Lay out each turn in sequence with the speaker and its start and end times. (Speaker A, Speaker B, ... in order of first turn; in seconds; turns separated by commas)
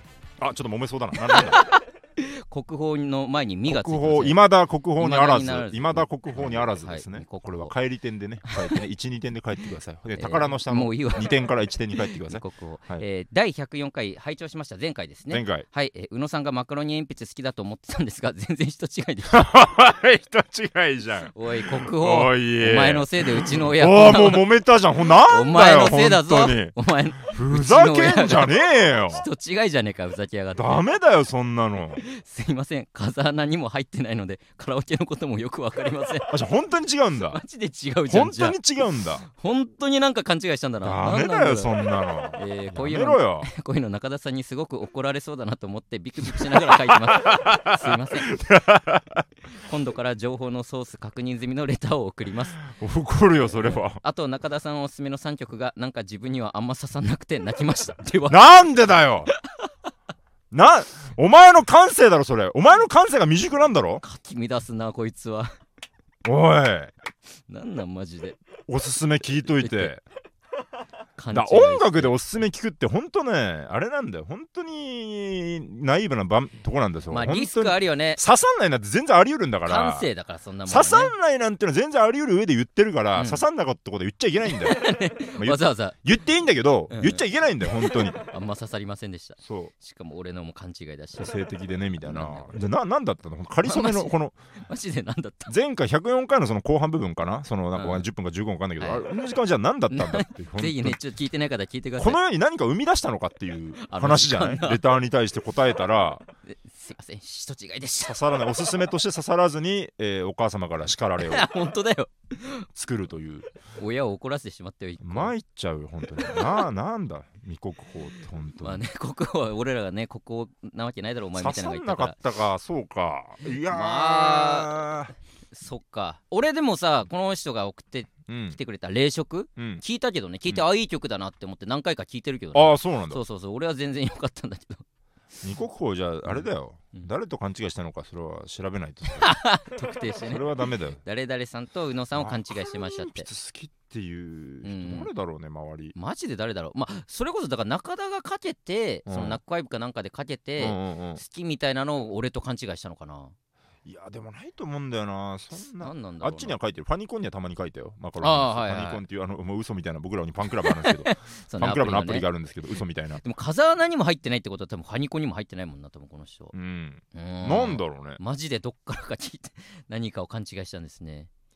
Speaker A: 0.4-1.6, Speaker B: 1.2-4.4, Speaker A: 3.7-13.0, Speaker B: 5.0-7.7, Speaker B: 8.4-8.8, Speaker B: 10.2-11.4, Speaker B: 12.0-19.5, Speaker A: 15.3-15.7, Speaker A: 19.3-29.3, Speaker B: 21.3-24.5, Speaker B: 25.1-30.8, Speaker A: 30.6-32.0, Speaker B: 32.0-36.4, Speaker A: 36.3-37.4, Speaker B: 37.3-38.6, Speaker A: 38.1-39.2, Speaker B: 39.3-41.8, Speaker A: 40.8-43.5, Speaker B: 42.3-48.3, Speaker A: 46.4-49.2, Speaker B: 49.6-52.6, Speaker A: 52.6-54.0, Speaker B: 53.6-58.5, Speaker A: 58.3-59.3, Speaker A: 60.5-64.0, Speaker B: 64.0-65.5, Speaker A: 66.2-66.9, Speaker B: 67.5-68.4, Speaker A: 68.7-70.0, Speaker B: 69.4-69.9, Speaker B: 71.2-72.2, Speaker A: 71.3-80.1, Speaker B: 77.1-78.2, Speaker B: 79.7-81.1, Speaker A: 80.7-88.2, Speaker B: 83.2-83.4, Speaker B: 84.5-86.0, Speaker B: 86.9-91.3, Speaker A: 89.4-89.7, Speaker A: 91.2-94.3, Speaker B: 92.0-92.6, Speaker B: 93.6-95.5, Speaker A: 95.5-101.0, Speaker B: 97.8-98.1, Speaker B: 98.8-99.1, Speaker B: 99.9-102.2, Speaker A: 102.0-106.2, Speaker B: 103.8-104.9, Speaker B: 106.5-108.2, Speaker A: 108.0-111.5, Speaker B: 111.2-112.7, Speaker A: 112.8-113.5, Speaker B: 113.7-115.3, Speaker A: 115.0-118.8, Speaker B: 116.2-116.6, Speaker B: 118.6-122.2, Speaker A: 121.4-125.1, Speaker B: 123.7-124.9, Speaker B: 125.5-134.8, Speaker A: 128.3-128.6, Speaker A: 129.6-129.8, Speaker A: 132.5-133.2, Speaker A: 135.4-139.4, Speaker B: 136.3-137.1, Speaker B: 139.2-143.3, Speaker A: 140.2-141.0, Speaker A: 142.2-145.9, Speaker B: 144.6-145.1, Speaker B: 145.9-153.3, Speaker A: 149.1-149.4, Speaker A: 150.6-151.2, Speaker A: 153.8-163.2, Speaker B: 155.6-156.6, Speaker B: 158.2-159.0, Speaker B: 160.6-162.3, Speaker B: 163.2-166.5, Speaker A: 166.5-168.2, Speaker B: 167.1-171.3